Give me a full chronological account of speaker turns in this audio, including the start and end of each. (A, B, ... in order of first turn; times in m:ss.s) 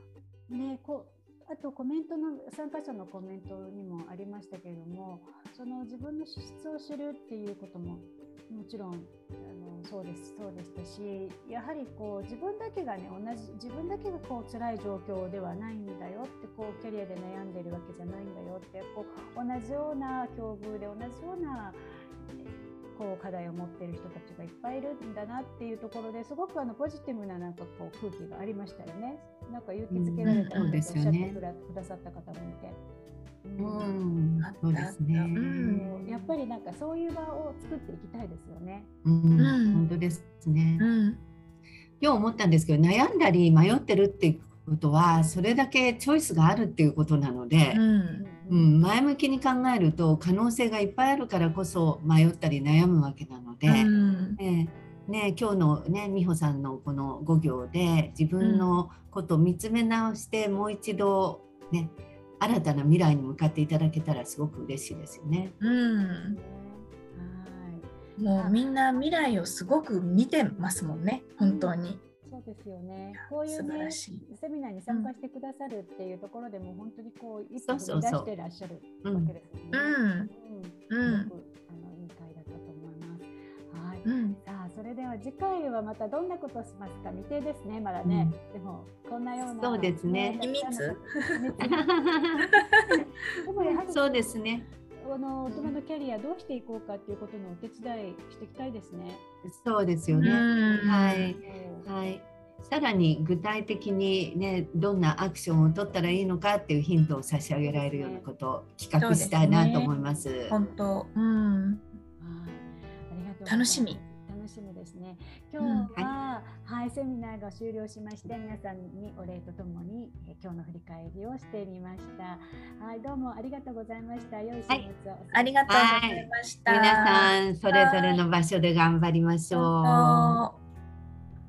0:00.5-0:21.8 A
0:22.9-0:32.8 A
0:29.9-0:31.4 B
0:30.2-0:30.6 C
0:33.4-0:33.9 A
0:33.6-0:36.3 B
0:34.4-0:35.8 C
0:35.6-0:38.9 A
0:39.0-0:40.8 B
0:39.4-0:39.8 C
0:40.8-0:41.2 C
0:42.0-0:47.8 B
0:47.7-0:48.2 C
0:48.2-0:48.7 A
0:48.5-1:05.5 B
0:53.6-0:54.4 C
0:58.4-0:58.8 C
1:05.6-1:06.4 C
1:06.1-1:09.0 A
1:08.2-1:12.0 C
1:11.4-1:32.0 A
1:13.2-1:14.3 C
1:17.6-1:18.3 B
1:19.0-1:19.3 B
1:19.7-1:20.3 C
1:20.9-1:21.3 C
1:24.0-1:24.4 C
1:28.0-1:28.4 B
1:29.5-1:30.4 B
1:30.4-1:31.4 C
1:31.6-1:32.5 B
1:32.9-1:34.4 A
1:33.9-1:34.6 B
1:34.9-1:39.2 A
1:35.5-1:35.7 C
1:39.4-1:50.5 B
1:40.1-1:41.9 A
1:40.2-1:41.3 C
1:47.6-1:48.3 A
1:49.0-1:49.9 C
1:49.4-1:50.7 A
1:50.5-1:51.8 C
1:52.2-2:05.5 A
1:53.4-1:54.0 C
1:55.6-1:55.9 C
2:05.3-2:08.2 C
2:05.7-2:10.4 B
2:09.5-2:10.6 C